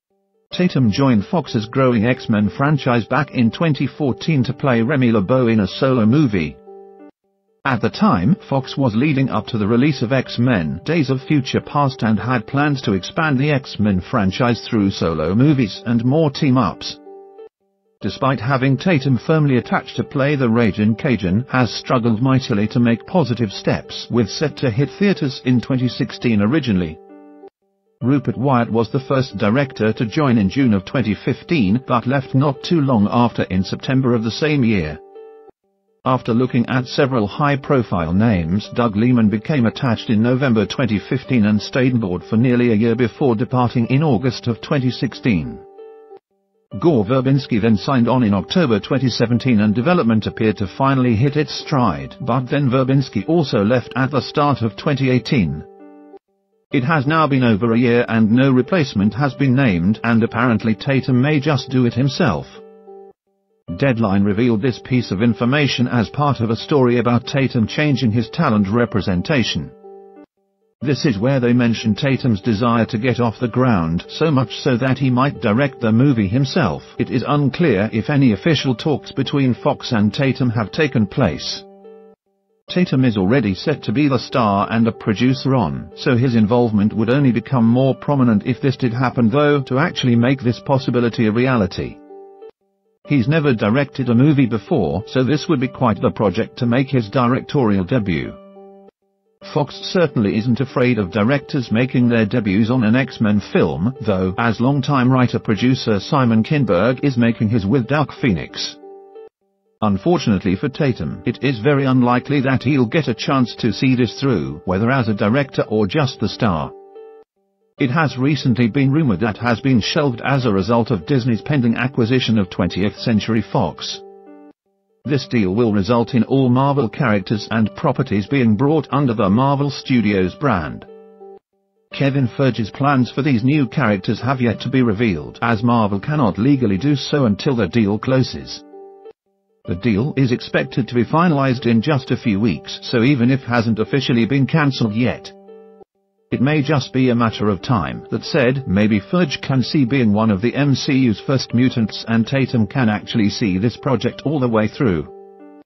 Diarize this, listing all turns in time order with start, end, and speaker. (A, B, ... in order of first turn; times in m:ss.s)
0:00.5-0:06.6 A
0:07.6-0:17.0 A
0:18.0-0:27.0 A
0:28.0-0:35.0 A
0:36.0-0:45.6 A
0:46.7-0:55.7 A
0:56.7-1:02.6 A
1:03.7-1:09.7 A
1:10.8-1:21.6 A
1:22.7-1:32.0 A
1:33.1-1:38.4 A
1:39.4-1:48.8 A
1:49.8-1:56.7 A
1:57.8-2:04.0 A
2:05.0-2:10.9 A
2:11.9-2:18.6 A
2:19.6-2:25.3 A
2:26.3-2:35.1 A